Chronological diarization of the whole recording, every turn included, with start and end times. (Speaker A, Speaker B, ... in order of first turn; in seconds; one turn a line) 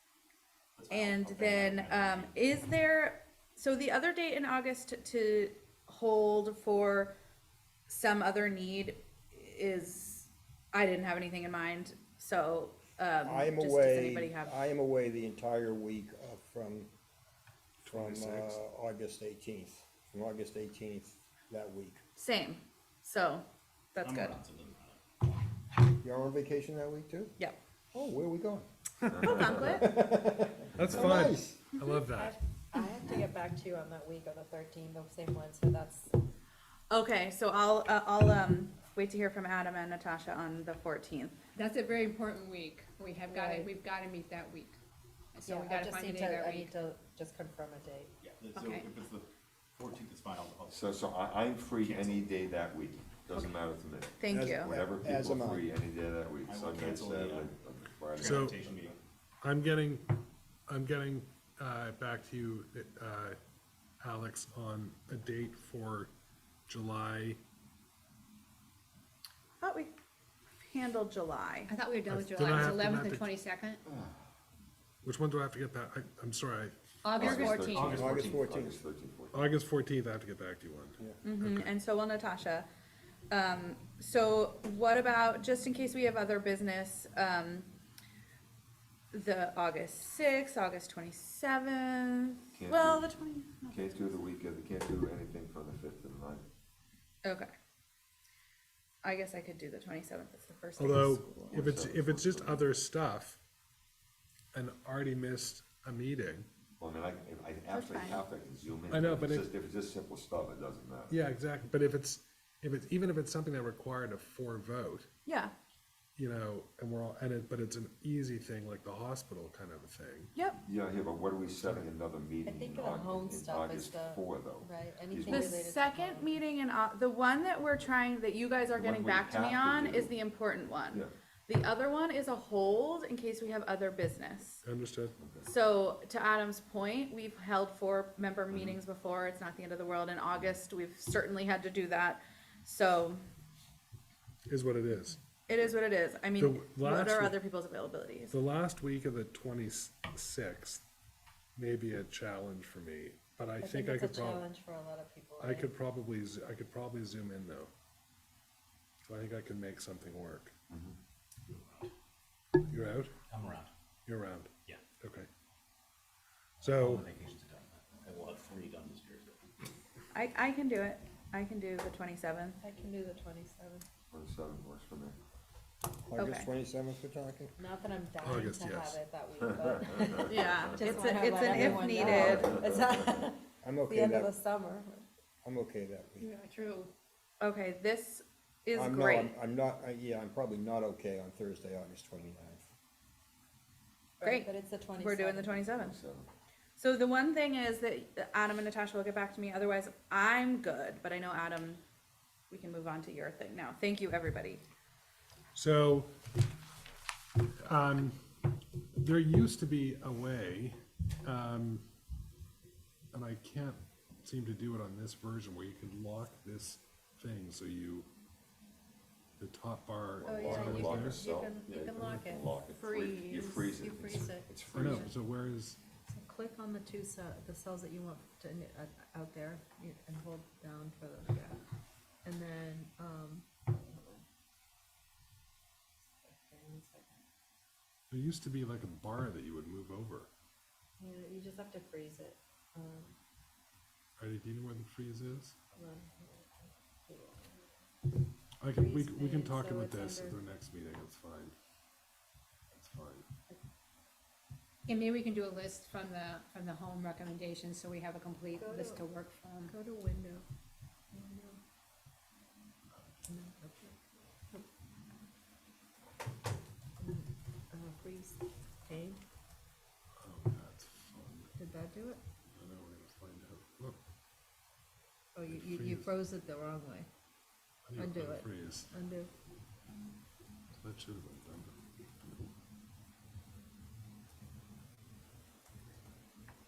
Speaker A: 0.8-2.3
Speaker B: 0.9-7.1
Speaker B: 7.9-14.5
Speaker C: 13.2-16.9
Speaker D: 17.8-18.6
Speaker C: 17.9-22.0
Speaker B: 22.1-24.4
Speaker A: 24.0-25.0
Speaker C: 26.0-27.3
Speaker C: 27.9-28.7
Speaker D: 29.0-29.5
Speaker E: 29.1-29.6
Speaker B: 29.2-29.9
Speaker C: 29.5-31.6
Speaker D: 30.8-32.3
Speaker F: 32.1-36.1
Speaker B: 36.9-41.4
Speaker G: 41.5-44.8
Speaker F: 43.3-43.7
Speaker G: 45.3-46.7
Speaker F: 45.4-48.1
Speaker A: 48.2-52.4
Speaker B: 48.6-48.8
Speaker E: 50.7-58.9
Speaker B: 54.2-54.7
Speaker C: 54.3-55.6
Speaker A: 56.4-59.0
Speaker D: 58.2-58.7
Speaker D: 59.4-63.4
Speaker D: 64.0-66.1
Speaker D: 66.7-67.4
Speaker B: 69.6-69.9
Speaker B: 70.7-71.7
Speaker G: 71.7-73.8
Speaker D: 72.1-73.3
Speaker E: 73.9-74.2
Speaker D: 75.0-78.1
Speaker G: 77.0-78.3
Speaker E: 77.2-79.5
Speaker C: 77.8-78.8
Speaker D: 79.3-81.7
Speaker B: 81.2-82.7
Speaker B: 83.3-87.7
Speaker B: 89.1-94.2
Speaker E: 92.5-93.1
Speaker E: 93.7-96.4
Speaker B: 97.2-97.5
Speaker B: 99.0-101.6
Speaker D: 100.8-103.4
Speaker E: 101.5-102.6
Speaker D: 104.5-106.5
Speaker E: 106.8-111.2
Speaker B: 107.7-108.2
Speaker D: 108.9-109.5
Speaker D: 111.1-115.1
Speaker B: 115.2-115.5
Speaker D: 116.2-120.3
Speaker B: 120.3-120.6
Speaker E: 120.6-125.5
Speaker F: 122.4-126.4
Speaker B: 125.3-134.6
Speaker E: 128.8-130.1
Speaker D: 134.6-135.1
Speaker E: 135.2-135.5
Speaker B: 135.4-143.2
Speaker E: 138.5-138.8
Speaker D: 144.5-145.2
Speaker B: 145.5-148.3
Speaker D: 146.4-147.4
Speaker D: 148.3-150.8
Speaker D: 151.6-154.5
Speaker F: 153.6-155.7
Speaker D: 155.4-157.7
Speaker D: 159.1-160.5
Speaker E: 160.7-161.0
Speaker A: 161.5-161.9
Speaker D: 162.7-163.1
Speaker A: 163.3-163.7
Speaker D: 164.1-165.3
Speaker D: 166.6-167.1
Speaker A: 166.6-169.4
Speaker B: 170.1-172.6
Speaker F: 172.6-173.8
Speaker E: 174.1-175.2
Speaker C: 176.1-177.5
Speaker B: 176.2-176.5
Speaker F: 177.6-185.1
Speaker D: 178.2-179.0
Speaker E: 179.6-180.8
Speaker B: 180.2-182.5
Speaker D: 181.4-182.4
Speaker E: 182.2-182.8
Speaker C: 183.6-184.3
Speaker C: 185.4-186.3
Speaker G: 186.2-186.9
Speaker B: 187.4-189.3
Speaker C: 188.7-192.7
Speaker F: 194.2-195.8
Speaker B: 194.2-196.0
Speaker E: 195.8-196.3
Speaker B: 196.8-201.8
Speaker B: 202.5-204.6
Speaker D: 205.5-206.1
Speaker D: 207.6-208.2
Speaker D: 208.9-211.8
Speaker D: 213.1-218.1
Speaker D: 219.4-221.2
Speaker E: 220.2-225.1
Speaker F: 220.2-225.0
Speaker D: 224.7-225.8
Speaker F: 226.1-231.6
Speaker F: 232.2-234.2
Speaker F: 236.2-237.2
Speaker D: 238.1-240.3
Speaker F: 241.0-243.1
Speaker D: 244.2-245.6
Speaker F: 245.7-247.8
Speaker D: 248.6-251.6
Speaker F: 248.7-250.4
Speaker D: 252.7-253.3
Speaker G: 254.8-259.7
Speaker F: 258.5-259.1
Speaker F: 259.7-260.4
Speaker F: 261.1-261.6
Speaker F: 263.3-264.6
Speaker F: 267.0-269.2
Speaker D: 270.2-271.5
Speaker F: 271.6-272.2
Speaker D: 272.5-274.0
Speaker F: 275.3-277.1
Speaker D: 275.4-276.1
Speaker D: 277.9-278.9
Speaker F: 277.9-279.3
Speaker D: 280.7-281.8